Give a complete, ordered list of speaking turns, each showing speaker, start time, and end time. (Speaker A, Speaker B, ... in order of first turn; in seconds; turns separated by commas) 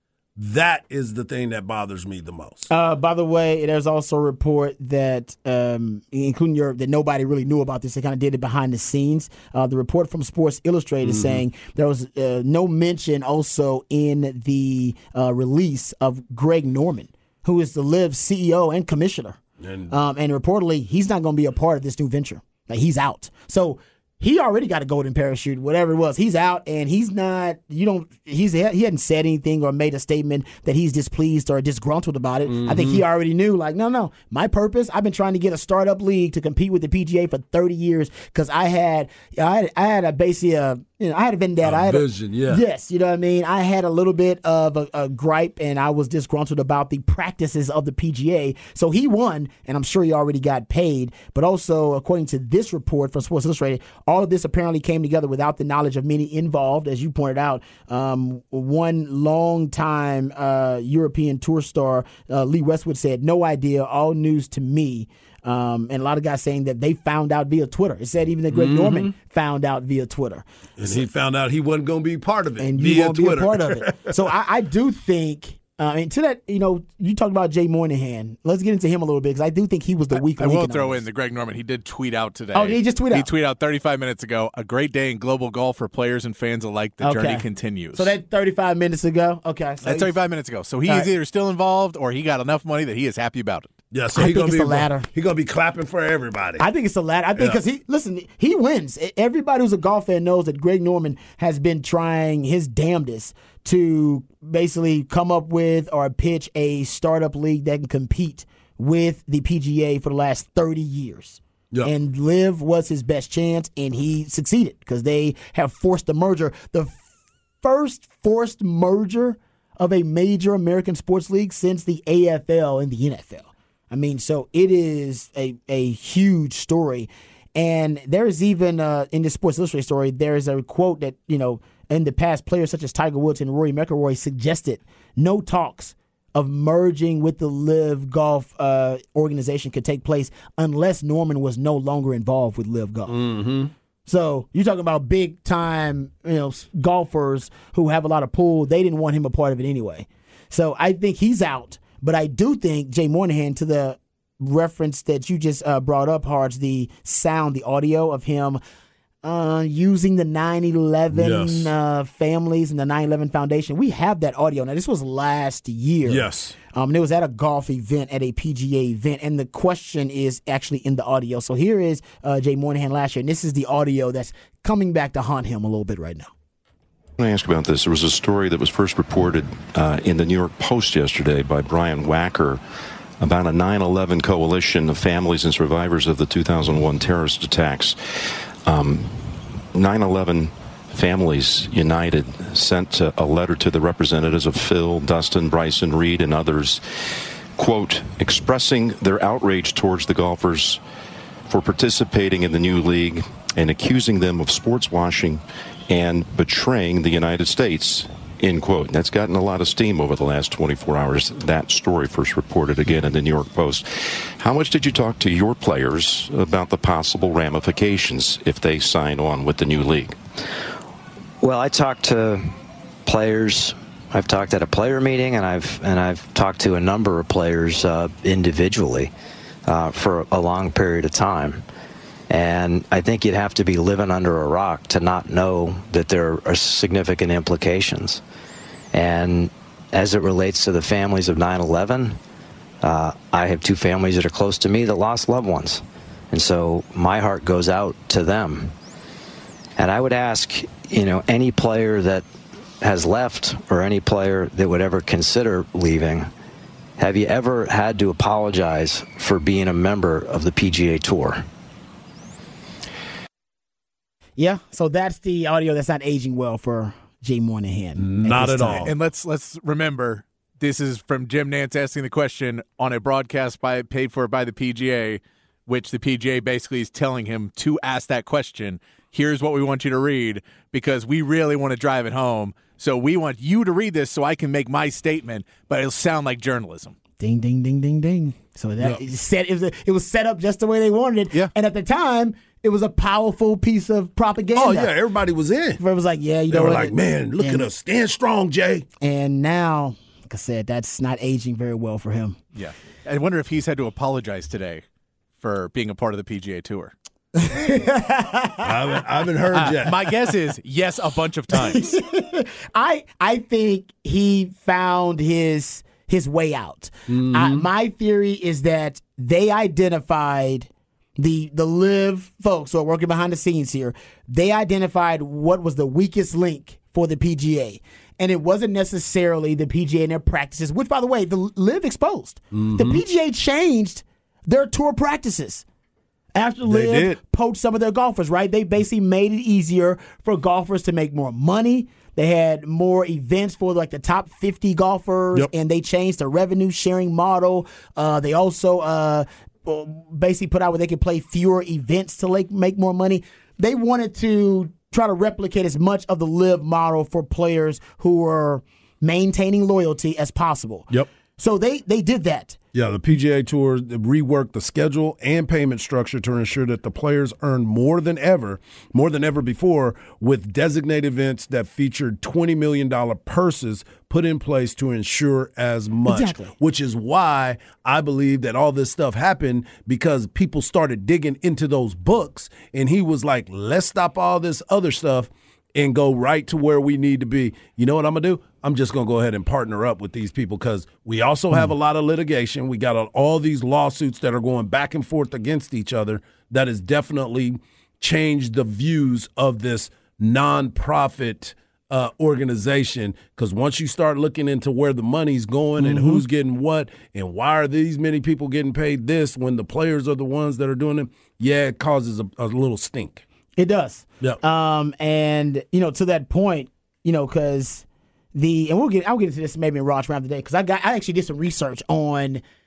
Speaker A: 0.4-2.7, Speaker B: 2.7-19.4, Speaker A: 11.0-11.4, Speaker A: 19.6-19.9, Speaker B: 19.9-71.0, Speaker A: 32.5-33.0, Speaker A: 41.6-42.6, Speaker A: 68.5-69.1, Speaker A: 70.8-74.2, Speaker B: 72.6-81.0, Speaker C: 80.1-88.1, Speaker B: 82.5-83.3, Speaker B: 87.0-90.1, Speaker C: 89.8-93.7, Speaker A: 93.9-96.7, Speaker B: 94.1-95.1, Speaker B: 96.6-117.0, Speaker B: 117.6-143.1, Speaker A: 143.1-143.7, Speaker B: 144.1-158.6, Speaker B: 159.2-176.3, Speaker A: 161.1-161.7, Speaker A: 166.0-166.5, Speaker D: 177.2-182.6, Speaker D: 183.2-200.8, Speaker D: 201.5-220.2, Speaker E: 221.4-222.5, Speaker E: 223.1-229.1, Speaker E: 229.7-231.6, Speaker E: 232.3-238.2, Speaker E: 238.9-242.2, Speaker E: 242.8-248.7, Speaker E: 249.8-252.2, Speaker E: 252.8-256.3, Speaker E: 257.0-261.4, Speaker B: 264.4-268.9, Speaker A: 268.0-268.9, Speaker C: 268.9-286.9, Speaker B: 287.2-294.9, Speaker A: 294.6-295.8, Speaker B: 295.8-297.7, Speaker A: 296.5-298.9, Speaker B: 299.0-302.4, Speaker C: 302.5-304.8, Speaker C: 305.4-306.9, Speaker B: 307.4-308.7, Speaker A: 308.6-310.1, Speaker C: 309.5-311.9, Speaker B: 311.5-335.6, Speaker A: 317.1-317.7, Speaker A: 332.5-333.0, Speaker B: 336.3-362.6, Speaker A: 336.6-337.2, Speaker A: 362.7-413.2, Speaker B: 376.1-376.5, Speaker B: 405.8-406.2, Speaker B: 413.6-422.4